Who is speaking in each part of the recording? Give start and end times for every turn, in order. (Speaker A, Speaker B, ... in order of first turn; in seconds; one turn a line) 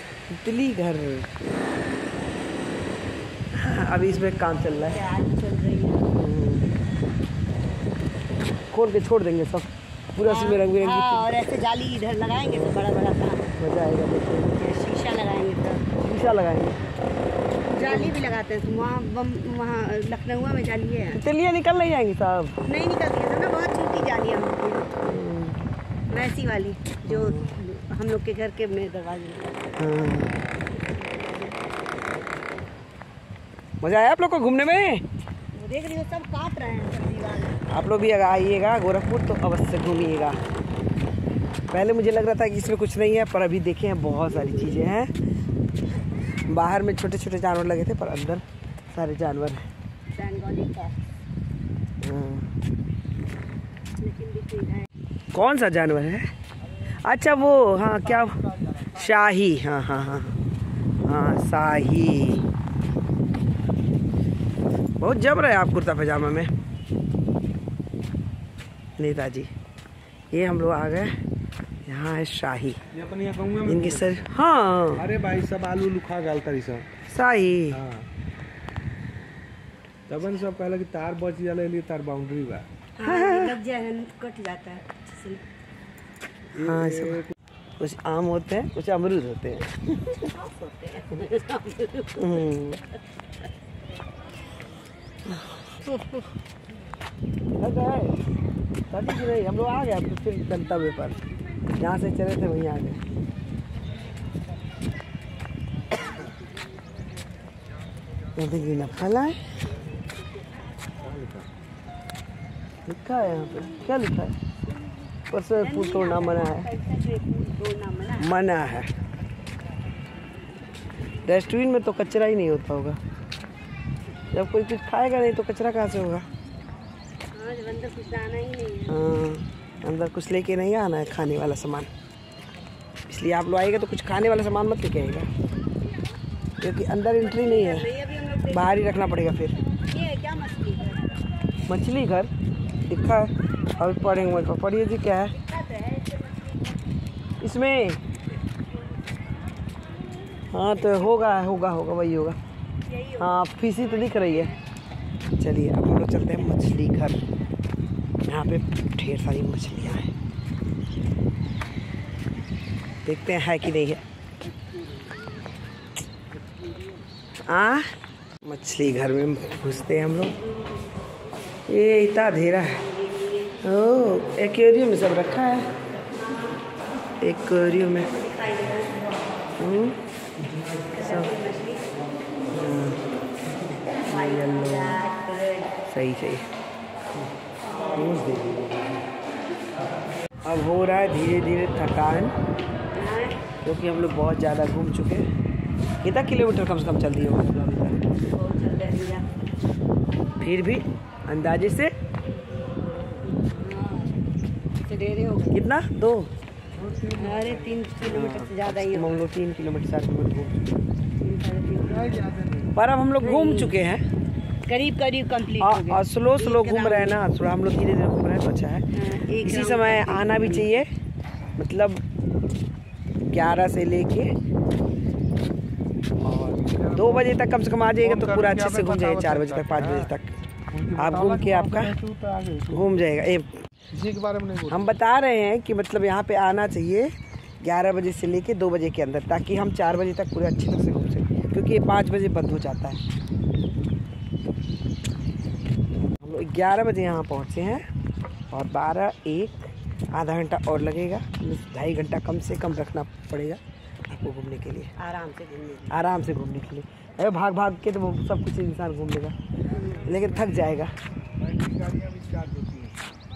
Speaker A: 0.3-1.3
Speaker A: 3.5-5.0
Speaker B: 4.9-6.1
Speaker A: 6.1-6.7
Speaker A: 8.7-11.4
Speaker B: 10.2-13.5
Speaker A: 12.4-12.8
Speaker A: 13.6-14.6
Speaker B: 14.6-15.9
Speaker A: 16.0-16.8
Speaker B: 17.7-21.2
Speaker A: 17.8-18.2
Speaker A: 21.1-22.6
Speaker B: 22.6-25.0
Speaker A: 25.0-25.7
Speaker B: 26.1-29.7
Speaker A: 27.1-27.6
Speaker A: 29.8-30.3
Speaker A: 33.8-35.0
Speaker B: 35.5-37.6
Speaker A: 37.7-40.4
Speaker A: 41.7-45.1
Speaker A: 46.5-49.7
Speaker B: 50.1-51.0
Speaker A: 52.0-52.5
Speaker B: 54.0-54.9
Speaker A: 55.3-56.3
Speaker A: 57.0-58.4
Speaker A: 58.9-60.4
Speaker A: 61.0-62.5
Speaker A: 65.0-66.5
Speaker A: 69.0-69.5
Speaker A: 70.3-71.1
Speaker A: 71.8-72.8
Speaker C: 72.9-74.3
Speaker A: 73.6-75.1
Speaker C: 75.0-76.9
Speaker A: 77.1-77.8
Speaker C: 77.7-78.1
Speaker C: 80.1-82.7
Speaker B: 83.0-85.4
Speaker A: 83.0-83.6
Speaker C: 86.5-87.3
Speaker A: 86.6-87.2
Speaker A: 87.8-90.2
Speaker B: 90.2-92.4
Speaker A: 92.2-92.8
Speaker A: 95.2-95.6
Speaker A: 97.6-98.2
Speaker A: 98.9-101.2
Speaker A: 101.8-103.0
Speaker A: 108.3-109.4
Speaker C: 111.0-111.5
Speaker A: 112.8-114.3
Speaker A: 115.3-116.7
Speaker B: 115.6-118.3
Speaker A: 118.2-118.9
Speaker A: 121.2-123.0
Speaker A: 124.3-126.2
Speaker B: 127.3-129.1
Speaker A: 128.9-131.9
Speaker A: 133.1-135.3
Speaker A: 136.6-137.9
Speaker B: 137.2-138.9
Speaker A: 138.5-139.5
Speaker B: 139.9-141.2
Speaker A: 141.7-142.3
Speaker A: 142.8-145.3
Speaker B: 145.3-146.7
Speaker A: 147.4-148.0
Speaker A: 150.5-152.4
Speaker B: 150.8-151.2
Speaker B: 152.8-154.6
Speaker A: 153.2-154.5
Speaker A: 155.4-157.2
Speaker A: 158.2-160.1
Speaker A: 163.0-164.0
Speaker A: 167.5-167.9
Speaker A: 168.4-170.3
Speaker A: 171.7-172.8
Speaker B: 172.8-173.5
Speaker A: 173.6-175.7
Speaker B: 176.2-176.5
Speaker A: 177.2-178.1
Speaker B: 177.7-179.3
Speaker A: 179.6-180.0
Speaker B: 180.9-181.9
Speaker A: 180.9-181.3
Speaker A: 182.5-183.0
Speaker A: 183.9-185.0
Speaker B: 183.9-185.8
Speaker A: 185.9-186.5
Speaker A: 187.9-189.0
Speaker A: 190.4-192.3
Speaker B: 192.9-193.4
Speaker A: 193.6-195.3
Speaker A: 196.0-198.0
Speaker B: 198.3-199.2
Speaker A: 200.4-201.9
Speaker B: 203.1-204.2
Speaker B: 204.8-205.6
Speaker A: 205.5-206.3
Speaker C: 206.7-207.7
Speaker B: 207.1-209.2
Speaker A: 208.0-210.7
Speaker B: 211.2-212.2
Speaker C: 211.8-212.7
Speaker A: 212.7-214.0
Speaker B: 213.2-213.7
Speaker B: 214.7-217.2
Speaker A: 215.6-218.9
Speaker B: 218.9-220.8
Speaker A: 219.4-220.9
Speaker A: 221.6-222.0
Speaker A: 223.3-224.3
Speaker C: 226.2-230.1
Speaker A: 226.9-230.3
Speaker C: 230.7-232.9
Speaker A: 231.0-231.9
Speaker A: 232.7-233.5
Speaker C: 233.9-234.9
Speaker A: 234.7-243.0
Speaker A: 246.2-247.8
Speaker A: 248.5-254.9
Speaker B: 255.0-256.0
Speaker A: 255.9-259.4
Speaker B: 259.7-260.1
Speaker A: 260.0-260.9
Speaker C: 261.4-263.1